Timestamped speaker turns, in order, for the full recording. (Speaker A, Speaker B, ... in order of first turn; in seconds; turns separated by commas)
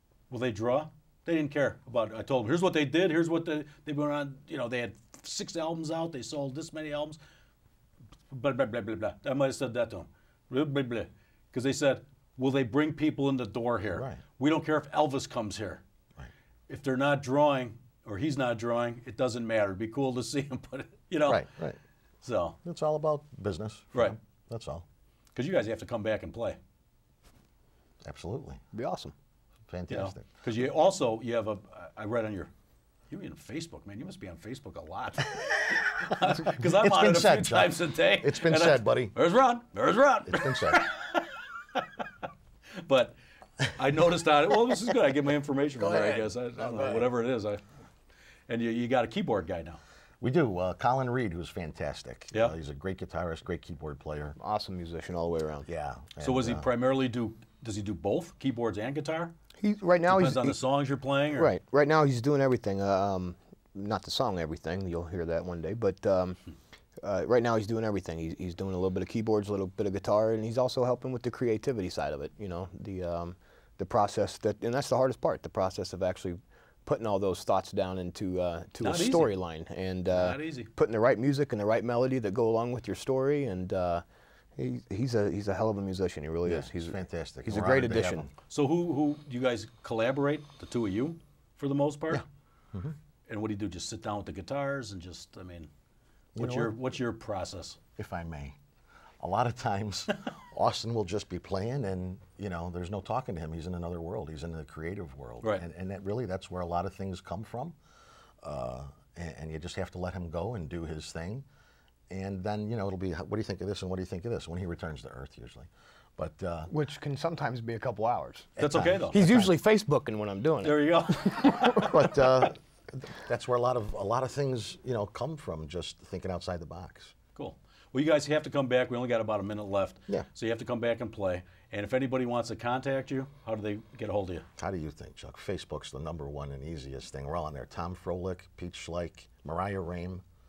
Speaker A: 0.3-7.2, Speaker A: 8.3-15.8, Speaker B: 13.9-14.2, Speaker A: 16.7-21.5, Speaker B: 21.2-21.8, Speaker A: 22.2-22.6, Speaker B: 22.6-24.9, Speaker A: 25.4-26.6, Speaker B: 28.0-28.6, Speaker C: 28.7-29.1, Speaker B: 29.7-30.3, Speaker A: 29.9-32.5, Speaker A: 33.1-42.2, Speaker B: 36.3-39.1, Speaker B: 40.2-40.8, Speaker A: 42.8-47.6, Speaker C: 45.8-47.0, Speaker A: 48.5-49.8, Speaker B: 50.2-54.4, Speaker C: 54.4-55.7, Speaker B: 55.6-56.7, Speaker A: 56.2-59.3, Speaker C: 59.6-60.6, Speaker A: 60.1-61.5, Speaker C: 61.3-66.4, Speaker C: 67.0-84.0, Speaker A: 78.8-79.3, Speaker A: 80.1-80.7, Speaker C: 84.6-88.3, Speaker B: 86.5-88.3, Speaker A: 88.5-92.2, Speaker B: 92.1-93.0, Speaker A: 93.3-95.7, Speaker B: 96.3-96.8, Speaker A: 96.4-97.8, Speaker B: 98.0-98.6, Speaker B: 99.2-107.8, Speaker B: 108.4-111.5, Speaker B: 112.1-116.7, Speaker C: 116.7-118.6, Speaker A: 118.6-119.2, Speaker B: 118.6-119.5, Speaker C: 119.1-122.0, Speaker A: 120.6-122.2, Speaker B: 121.7-127.1, Speaker A: 127.3-134.5, Speaker B: 134.6-140.2